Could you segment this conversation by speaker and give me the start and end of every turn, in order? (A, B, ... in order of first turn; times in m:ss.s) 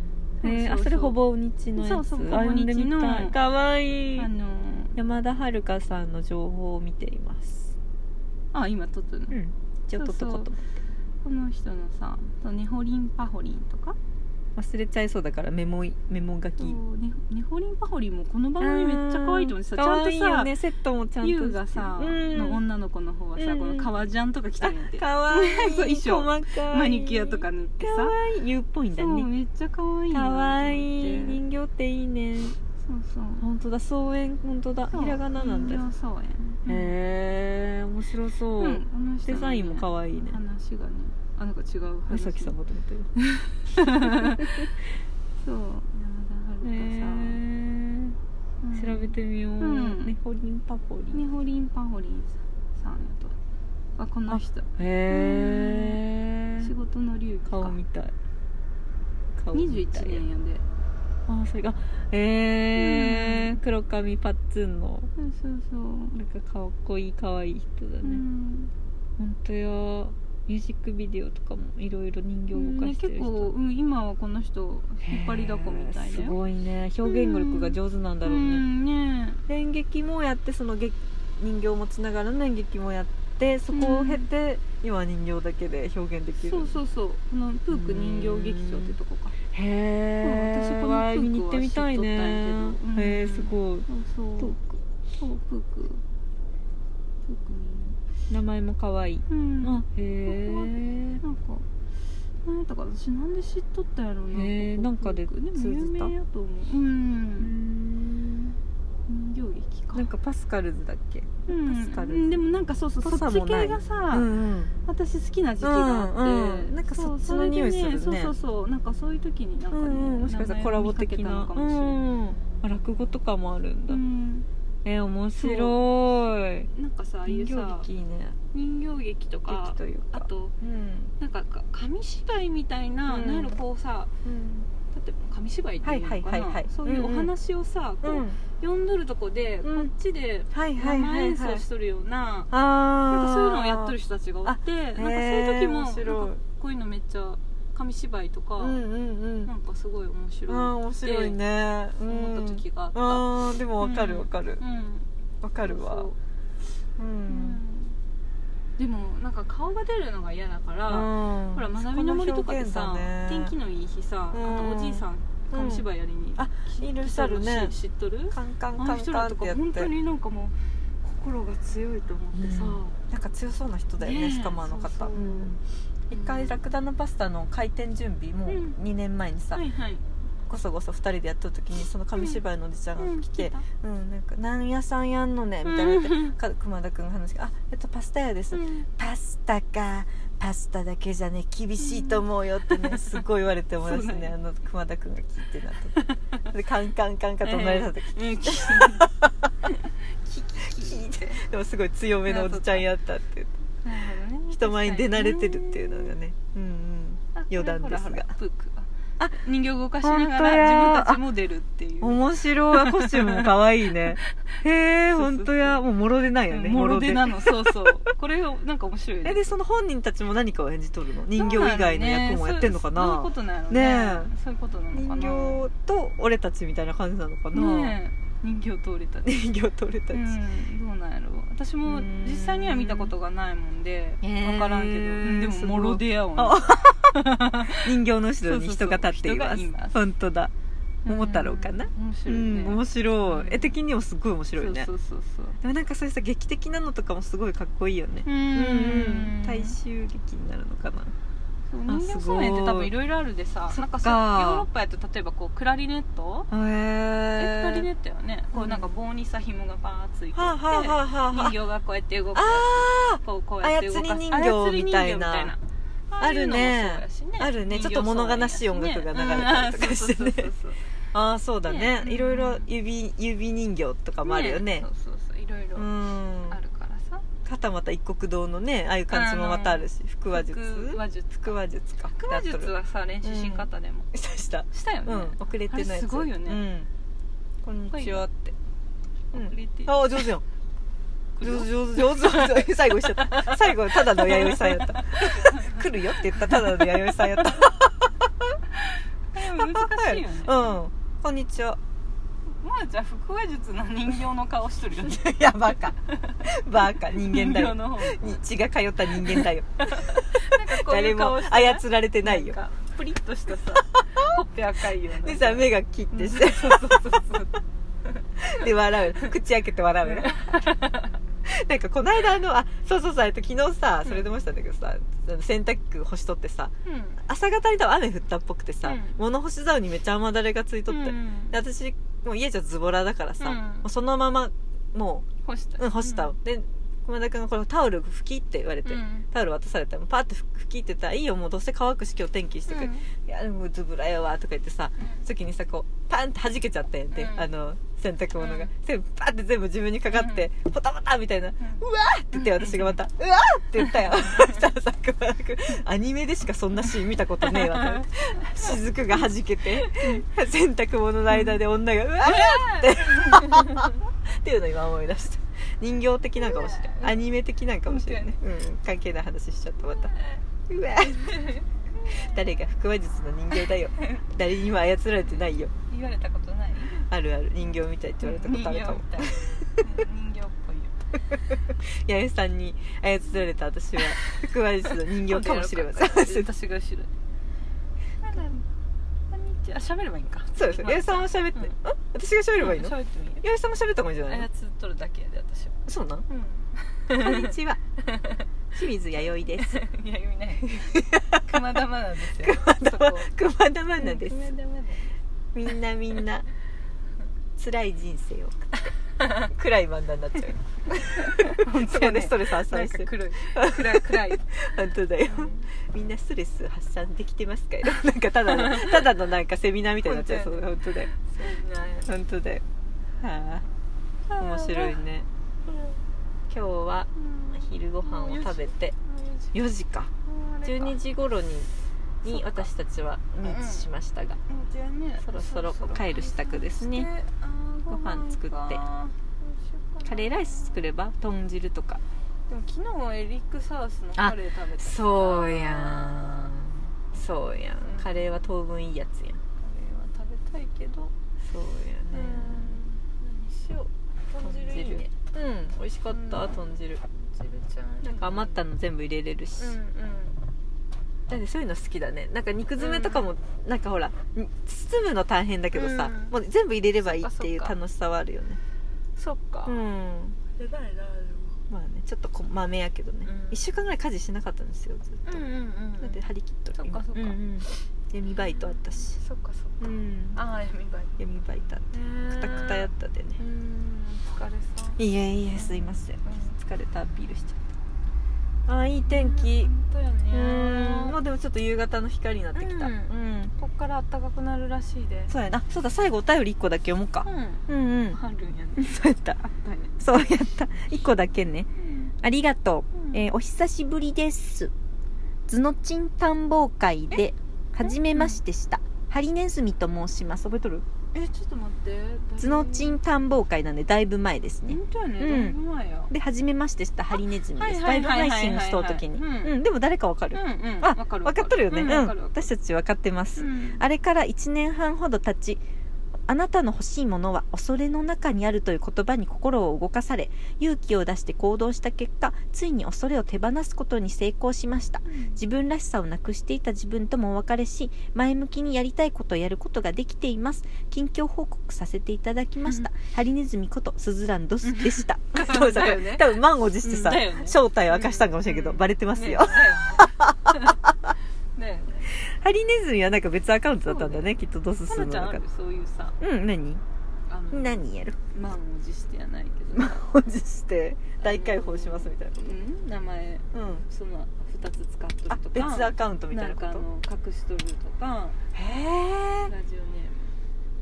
0:00.4-0:01.2 A
0:00.4-0:04.3 B
0:01.8-0:03.4 A
0:04.2-0:05.0 A
0:05.0-0:07.8 B
0:08.5-0:09.4 A
0:09.3-0:10.7 B
0:10.0-0:10.5 A
0:11.2-0:14.0 A
0:14.6-0:16.8 B
0:16.6-0:20.5 A
0:18.6-0:22.6 B
0:21.2-0:28.1 A
0:23.4-0:23.9 B
0:24.6-0:29.3 B
0:29.0-0:31.4 A
0:30.1-0:32.6 B
0:32.8-0:33.4 A
0:33.4-0:35.9 B
0:34.9-0:37.0 A
0:36.7-0:40.4 B
0:38.6-0:42.6 A
0:42.1-0:43.1 B
0:43.2-0:44.7 A
0:44.0-0:44.7 B
0:45.4-0:47.4 A
0:46.6-0:48.2 B
0:48.6-0:50.2 A
0:48.8-0:51.3 B
0:51.1-0:53.4 A
0:54.0-0:56.0 A
0:54.3-0:56.7 B
0:56.6-0:57.8 A
0:57.5-0:58.1 B
0:59.4-1:00.2 B
0:59.5-1:00.6 A
1:01.3-1:05.1 B
1:02.8-1:03.6 A
1:05.2-1:06.2 A
1:06.1-1:08.2 B
1:08.0-1:08.7 A
1:09.2-1:13.5 B
1:12.5-1:16.4 A
1:15.0-1:18.6 B
1:17.0-1:19.4 A
1:19.5-1:26.8 B
1:23.7-1:24.3 A
1:26.4-1:29.4 A
1:27.7-1:29.0 B
1:29.5-1:33.9 B
1:30.2-1:34.6 A
1:34.4-1:34.8 B
1:35.1-1:36.0 A
1:37.2-1:38.0 A
1:38.3-1:41.2 B
1:39.3-1:41.7 A
1:42.4-1:47.5 A
1:44.3-1:46.1 B
1:47.4-1:48.6 B
1:49.1-1:50.1 A
1:49.9-1:52.4 B
1:51.5-1:54.3 A
1:53.0-1:54.7 B
1:54.8-2:02.0 A
1:55.6-1:58.3 B
1:59.7-2:04.0 B
2:03.9-2:04.5 A
2:04.8-2:06.7 B
2:05.4-2:05.8 A
2:06.7-2:07.9 A
2:07.3-2:08.4 B
2:08.5-2:10.5 A
2:09.5-2:11.1 B
2:11.2-2:14.1 A
2:13.1-2:13.6 B
2:14.2-2:14.7 B
2:14.9-2:22.5 A
2:15.8-2:17.4 B
2:18.0-2:18.4 B
2:19.6-2:19.9 B
2:20.5-2:21.6 B
2:22.5-2:26.4 B
2:23.1-2:28.8 A
2:28.6-2:29.5 B
2:29.4-2:31.4 A
2:30.5-2:34.6 B
2:32.1-2:33.3 A
2:33.8-2:35.1 A
2:35.4-2:36.1 B
2:35.6-2:36.2 A
2:37.0-2:37.6 B
2:37.3-2:38.0 A
2:38.8-2:53.0 A
2:40.9-2:43.6 B
2:44.3-2:47.8 B
2:48.3-2:49.9 B
2:52.3-2:59.7 B
2:54.0-2:55.6 A
2:56.1-2:56.6 A
2:58.5-2:58.8 A
2:59.5-3:00.0 A
3:00.5-3:19.5 B
3:03.0-3:03.7 A
3:05.6-3:06.4 A
3:08.5-3:08.9 A
3:11.8-3:13.2 A
3:13.8-3:14.3 A
3:16.0-3:16.4 A
3:17.4-3:19.1 A
3:19.6-3:21.4 A
3:20.6-3:23.5 B
3:22.2-3:22.9 A
3:23.8-3:26.2 A
3:24.5-3:28.3 B
3:27.4-3:35.8 A
3:30.0-3:31.2 B
3:32.0-3:37.8 B
3:36.5-3:39.6 A
3:39.2-3:44.3 B
3:41.3-3:45.6 A
3:44.9-3:48.0 B
3:47.5-3:49.4 A
3:49.2-3:50.4 B
3:50.1-4:00.0 A
3:51.9-3:53.1 B
3:54.2-3:57.2 B
3:57.8-4:00.5 B
4:01.1-4:03.8 A
4:01.1-4:04.9 B
4:04.6-4:05.6 A
4:05.6-4:11.1 B
4:08.2-4:09.8 A
4:11.7-4:16.5 A
4:11.9-4:12.9 B
4:13.7-4:14.7 B
4:16.5-4:17.9 B
4:17.4-4:30.9 A
4:18.5-4:18.9 B
4:20.4-4:21.6 B
4:22.4-4:25.5 B
4:26.2-4:30.5 B
4:31.1-4:34.9 B
4:31.7-4:32.7 A
4:34.2-4:37.2 A
4:35.8-4:36.6 B
4:37.4-4:46.9 B
4:39.1-4:41.6 A
4:42.1-4:44.1 A
4:44.7-4:46.6 A
4:47.6-4:48.6 B
4:47.9-4:48.2 A
4:49.3-4:50.3 A
4:49.3-4:50.4 B
4:51.4-4:57.7 A
4:51.4-4:58.6 B
4:58.8-5:00.7 A
4:59.4-5:01.8 B
5:02.5-5:05.3 A
5:05.0-5:12.6 B
5:06.0-5:08.4 A
5:09.2-5:18.7 A
5:14.0-5:14.4 B
5:15.2-5:17.2 B
5:18.4-5:20.6 B
5:20.1-5:21.1 A
5:21.5-5:26.7 B
5:26.8-5:27.2 A
5:27.3-5:35.3 B
5:28.8-5:29.2 A
5:30.9-5:31.6 A
5:33.4-5:33.9 A
5:35.4-5:36.3 A
5:35.8-6:10.2 B
5:38.8-5:39.3 A
5:42.7-5:43.1 A
5:47.1-5:47.5 A
5:48.4-5:48.7 A
5:50.1-5:50.5 A
5:51.6-5:53.0 A
5:53.8-5:54.6 A
5:57.5-6:00.3 A
6:02.2-6:04.0 A
6:06.4-6:07.3 A
6:07.9-6:08.4 A
6:09.8-6:10.4 A
6:10.7-6:15.7 B
6:11.3-6:12.3 A
6:15.9-6:17.0 A
6:17.0-6:19.9 B
6:18.2-6:21.1 A
6:21.5-6:26.5 B
6:25.1-6:27.1 A
6:28.2-6:28.6 A
6:29.3-6:31.8 A
6:30.6-6:34.5 B
6:32.6-6:33.4 A
6:34.3-6:38.5 A
6:35.9-6:36.2 B
6:37.1-6:37.8 B
6:38.7-6:39.8 B
6:39.2-6:43.3 A
6:40.7-6:41.6 B
6:42.2-6:44.5 B
6:44.0-6:45.2 A
6:45.5-6:46.5 B
6:47.6-6:48.7 B
6:49.2-6:49.5 A
6:49.5-7:01.1 B
6:50.9-6:54.5 A
6:55.2-6:55.7 A
6:58.5-6:59.1 A
7:00.0-7:02.1 A
7:02.1-7:02.6 B
7:03.2-7:03.7 B
7:04.3-7:05.0 A
7:04.4-7:05.3 B
7:05.7-7:06.0 A
7:06.5-7:09.0 B
7:07.2-7:09.5 A
7:09.5-7:10.1 B
7:10.2-7:11.0 A
7:10.6-7:11.7 B
7:12.2-7:12.7 A
7:12.2-7:14.4 B
7:13.4-7:13.9 A
7:14.5-7:20.8 A
7:15.2-7:17.1 B
7:17.9-7:18.8 B
7:20.0-7:22.0 B
7:22.5-7:26.6 A
7:24.2-7:29.4 B
7:27.8-7:28.3 A
7:29.6-7:31.1 A
7:31.4-7:32.8 B
7:32.1-7:35.1 A
7:34.4-7:37.0 B
7:36.1-7:38.6 A
7:38.0-7:39.8 B
7:39.6-7:40.4 A
7:41.3-7:48.6 B
7:42.8-7:43.3 A
7:45.7-7:46.3 A
7:47.0-7:47.8 A
7:49.2-7:49.8 A
7:49.7-7:50.4 B
7:50.6-7:51.6 A
7:51.7-7:55.4 B
7:53.2-7:53.6 A
7:55.2-7:56.2 A
7:56.0-7:59.2 B
7:56.8-7:57.8 A
7:58.4-8:01.1 A
7:59.8-8:00.4 B
8:01.2-8:03.4 B
8:01.9-8:05.0 A
8:05.0-8:07.6 B
8:05.5-8:06.6 A
8:08.7-8:09.7 B
8:09.1-8:11.2 A
8:10.3-8:13.5 B
8:12.6-8:15.3 A
8:15.3-8:18.2 B
8:17.2-8:18.9 A
8:18.8-8:21.7 B
8:19.5-8:19.9 A
8:21.8-8:22.1 A
8:22.2-8:24.7 B
8:22.9-8:23.2 A
8:25.5-8:30.8 B
8:27.8-8:28.4 A
8:31.1-8:33.0 A
8:32.4-8:35.6 B
8:34.7-8:36.1 A
8:36.1-8:45.6 B
8:37.1-8:39.6 A
8:40.3-8:42.5 A
8:43.4-8:43.8 A
8:46.3-9:10.9 B
8:55.1-8:55.4 A
9:04.6-9:10.8 A
9:11.6-9:12.1 A
9:12.1-9:15.4 B
9:13.9-9:14.3 A
9:14.9-9:16.2 A
9:16.2-9:16.8 B
9:17.3-9:20.0 A
9:17.5-9:18.2 B
9:19.7-9:22.6 B
9:21.2-9:28.4 A
9:23.5-9:23.9 B
9:25.3-9:26.9 B
9:28.5-9:29.5 B
9:29.4-9:30.4 A